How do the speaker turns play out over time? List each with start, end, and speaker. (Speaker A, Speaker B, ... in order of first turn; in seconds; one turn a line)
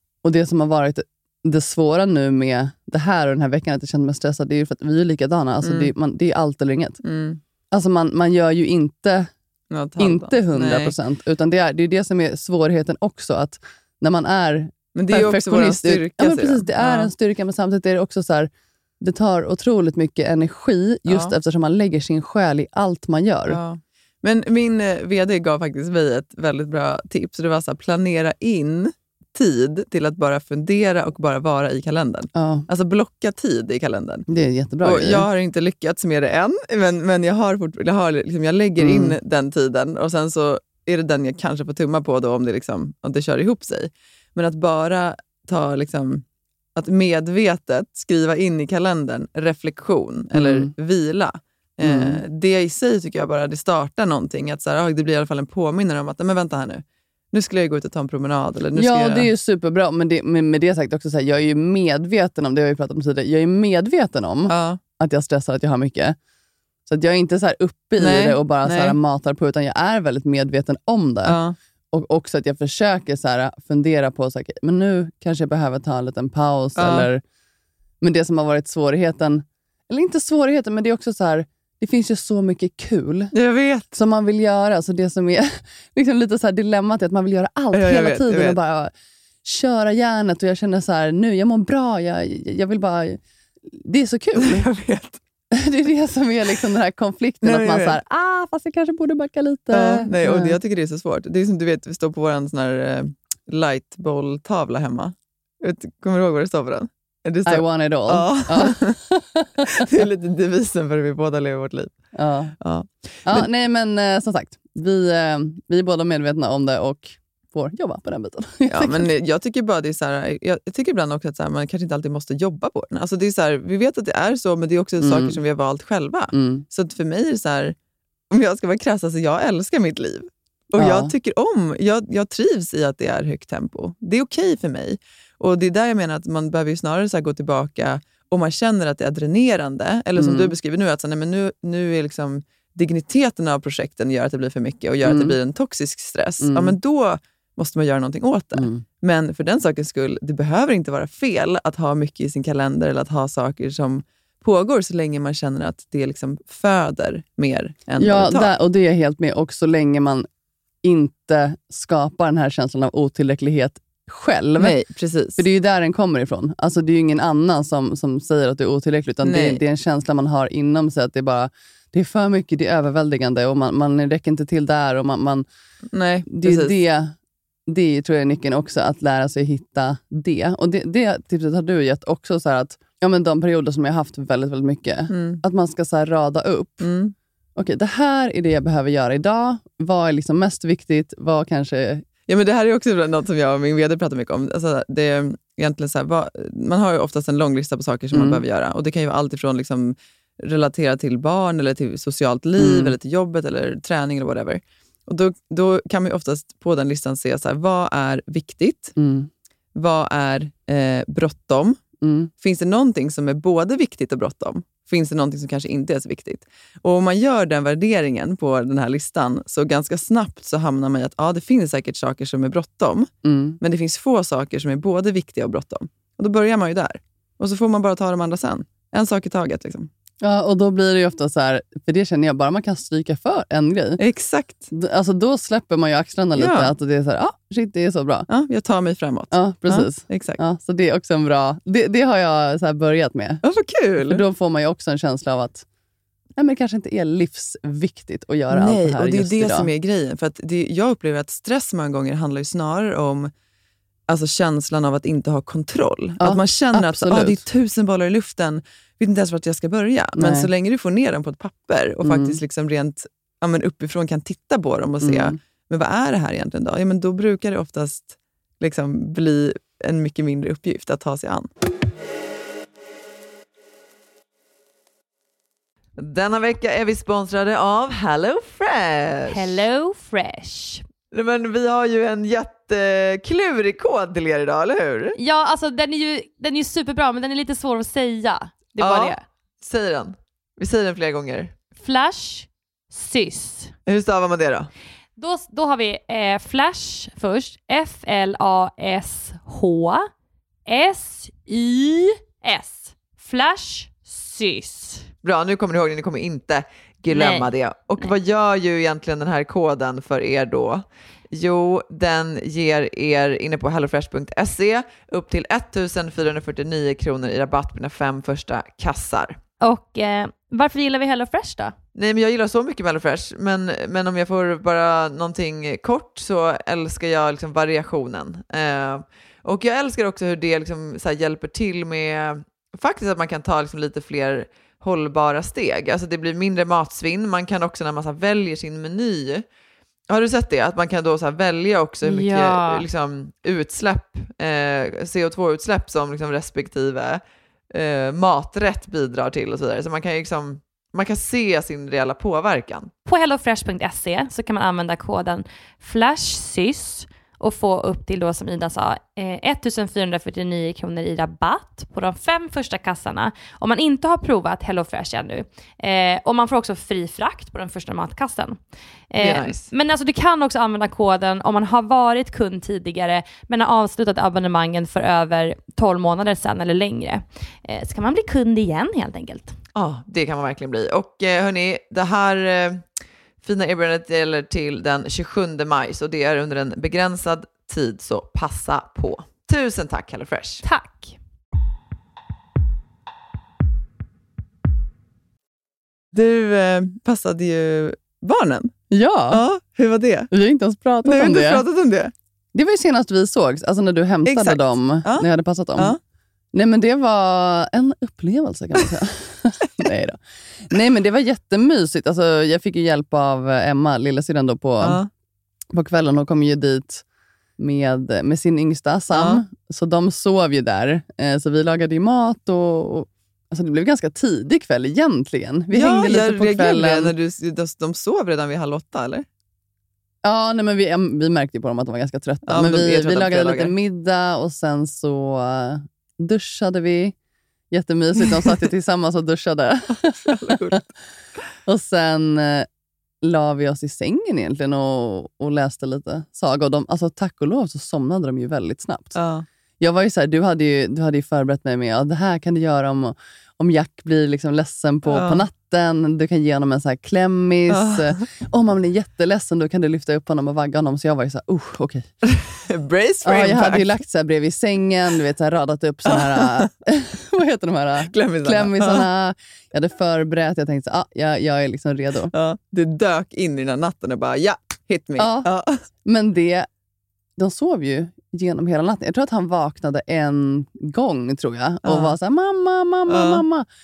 Speaker A: 0.2-7.0
Speaker B: 5.6-5.9
Speaker B: 7.0-7.4
Speaker A: 7.7-9.3
Speaker B: 9.7-10.9
Speaker A: 10.0-23.6
Speaker B: 14.9-17.1
Speaker B: 21.1-21.3
Speaker B: 23.5-34.2
Speaker A: 32.3-32.6
Speaker A: 34.3-35.3
Speaker B: 34.8-46.2
Speaker A: 38.8-39.2
Speaker B: 46.7-59.3
Speaker A: 50.3-50.7
Speaker A: 51.8-52.2
Speaker A: 58.8-66.2
Speaker B: 64.5-64.8
Speaker A: 66.9-71.3
Speaker B: 68.0-69.0
Speaker B: 71.2-71.5
Speaker A: 71.9-77.2
Speaker B: 76.8-77.1
Speaker A: 78.0-83.3
Speaker B: 83.3-83.9
Speaker A: 83.9-88.9
Speaker B: 87.7-88.6
Speaker A: 89.4-94.7
Speaker B: 94.4-95.2
Speaker A: 95.5-100.6
Speaker B: 97.4-98.0
Speaker B: 99.7-109.0
Speaker A: 107.4-109.8
Speaker B: 109.7-111.9
Speaker A: 112.1-112.5
Speaker B: 112.6-113.5
Speaker A: 113.2-119.1
Speaker B: 118.7-127.7
Speaker A: 125.0-125.4
Speaker A: 126.3-126.6
Speaker B: 128.3-158.5
Speaker A: 130.8-131.1
Speaker A: 140.2-140.5
Speaker A: 145.0-145.4
Speaker A: 146.4-146.8
Speaker A: 148.5-148.8
Speaker A: 158.0-160.3
Speaker A: 160.8-164.8
Speaker B: 164.6-165.4
Speaker A: 165.4-175.4
Speaker B: 169.2-169.6
Speaker B: 175.9-176.8
Speaker A: 176.3-177.1
Speaker A: 177.7-186.9
Speaker B: 185.1-185.4
Speaker B: 186.8-187.1
Speaker A: 187.6-192.0
Speaker B: 192.3-208.9
Speaker A: 198.1-198.4
Speaker A: 202.6-202.9
Speaker A: 209.0-209.3
Speaker B: 209.7-211.8
Speaker A: 212.0-212.3
Speaker B: 212.4-229.9
Speaker A: 223.2-223.6
Speaker A: 230.2-234.0
Speaker B: 234.0-234.7
Speaker A: 234.7-238.3
Speaker B: 236.3-236.7
Speaker B: 238.3-240.4
Speaker A: 239.3-243.4
Speaker B: 243.4-244.2
Speaker A: 244.0-245.6
Speaker A: 246.4-249.7
Speaker B: 248.5-253.3
Speaker B: 254.1-271.5
Speaker A: 256.2-257.4
Speaker A: 260.2-260.5
Speaker A: 262.0-262.4
Speaker A: 265.0-265.4
Speaker B: 276.0-279.6
Speaker C: 279.3-280.8
Speaker B: 281.1-285.1
Speaker C: 285.2-289.2
Speaker B: 288.8-291.5
Speaker C: 291.8-293.7
Speaker B: 293.9-294.7
Speaker C: 295.2-300.1
Speaker C: 300.7-305.1
Speaker B: 305.2-319.4
Speaker C: 307.1-308.1
Speaker C: 319.6-321.7
Speaker B: 321.9-339.4
Speaker B: 340.1-352.9
Speaker C: 342.0-342.8
Speaker C: 353.1-379.6
Speaker B: 369.2-369.7
Speaker B: 379.7-382.9
Speaker B: 383.4-390.6
Speaker C: 390.6-391.2
Speaker B: 396.1-398.7
Speaker A: 398.9-399.4
Speaker B: 399.3-400.3
Speaker A: 400.3-401.6
Speaker B: 401.0-402.1
Speaker A: 402.5-405.9
Speaker B: 404.2-406.0
Speaker A: 406.5-415.0
Speaker B: 414.8-415.1
Speaker A: 415.7-417.0
Speaker A: 417.6-427.1
Speaker B: 419.1-419.4
Speaker B: 425.7-429.2
Speaker A: 430.2-437.1
Speaker B: 432.5-433.7
Speaker A: 437.7-440.8
Speaker B: 440.0-440.9
Speaker A: 441.6-442.7
Speaker A: 443.2-449.1
Speaker B: 449.1-449.4
Speaker A: 449.8-462.1
Speaker B: 455.1-455.4
Speaker B: 457.7-458.2
Speaker B: 462.2-464.0
Speaker A: 463.2-472.3
Speaker B: 466.1-466.7
Speaker B: 468.1-469.1
Speaker B: 472.3-475.8
Speaker A: 475.2-475.5
Speaker A: 476.0-476.7
Speaker A: 477.4-483.6
Speaker B: 481.8-482.1
Speaker B: 483.1-483.4